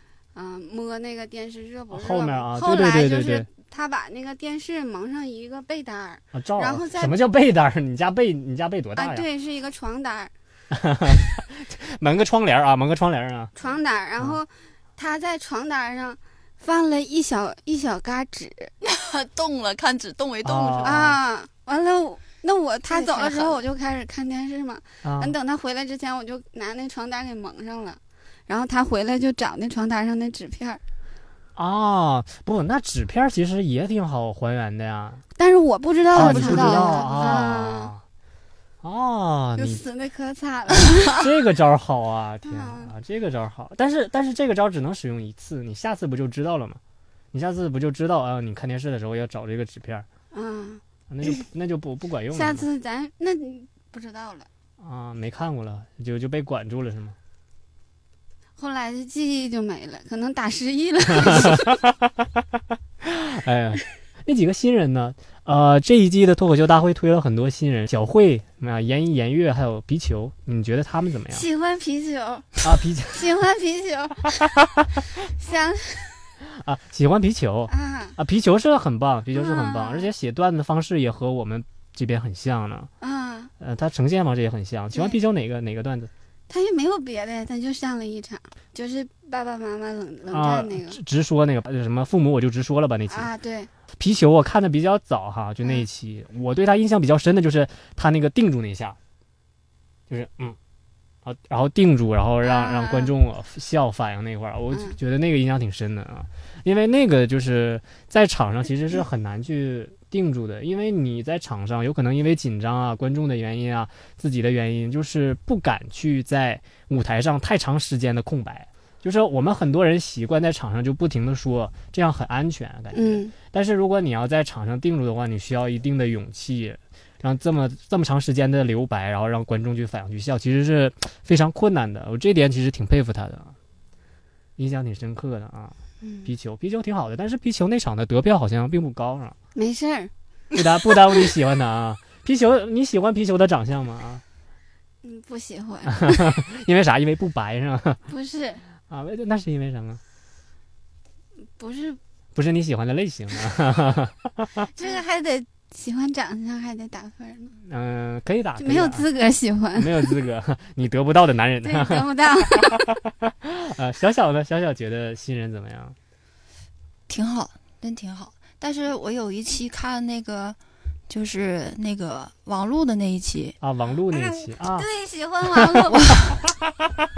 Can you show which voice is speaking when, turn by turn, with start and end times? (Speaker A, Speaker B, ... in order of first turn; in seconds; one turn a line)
Speaker A: 0.3-7.2
Speaker B: 1.9-3.5
Speaker B: 6.3-9.2
Speaker A: 8.9-10.3
Speaker B: 10.7-13.5
Speaker A: 13.6-18.7
Speaker C: 18.8-21.0
Speaker B: 20.4-21.2
Speaker A: 20.8-30.8
Speaker C: 22.9-23.6
Speaker B: 25.0-25.3
Speaker B: 31.6-35.2
Speaker A: 35.4-37.9
Speaker B: 36.1-38.0
Speaker C: 36.1-37.3
Speaker B: 38.8-39.8
Speaker A: 39.5-41.3
Speaker B: 40.9-46.8
Speaker A: 42.4-42.9
Speaker B: 47.3-50.0
Speaker A: 50.3-50.8
Speaker B: 51.1-52.6
Speaker A: 52.3-54.5
Speaker B: 54.8-57.1
Speaker A: 58.6-61.8
Speaker B: 61.1-62.3
Speaker B: 63.0-71.5
Speaker A: 71.3-74.5
Speaker B: 72.6-73.3
Speaker A: 75.2-76.3
Speaker B: 76.5-82.9
Speaker A: 77.7-78.1
Speaker A: 79.3-80.1
Speaker A: 83.0-83.5
Speaker B: 83.6-86.1
Speaker A: 84.9-85.2
Speaker A: 86.5-91.0
Speaker B: 90.3-93.3
Speaker A: 93.1-93.7
Speaker B: 94.0-99.0
Speaker B: 100.1-100.6
Speaker B: 101.2-133.5
Speaker A: 102.4-103.1
Speaker A: 104.7-105.0
Speaker A: 122.9-123.3
Speaker B: 134.6-139.3
Speaker A: 136.0-136.3
Speaker A: 139.5-140.1
Speaker B: 140.5-144.2
Speaker A: 145.0-146.3
Speaker B: 145.9-148.0
Speaker A: 148.1-148.6
Speaker B: 148.9-150.0
Speaker A: 151.6-152.0
Speaker B: 152.3-154.7
Speaker A: 154.7-157.5
Speaker B: 157.6-159.1
Speaker A: 158.6-160.2
Speaker B: 159.8-162.1
Speaker A: 161.6-162.8
Speaker B: 162.6-165.9
Speaker C: 167.1-170.6
Speaker C: 171.1-173.6
Speaker B: 173.6-174.9
Speaker A: 174.1-176.1
Speaker C: 175.9-176.3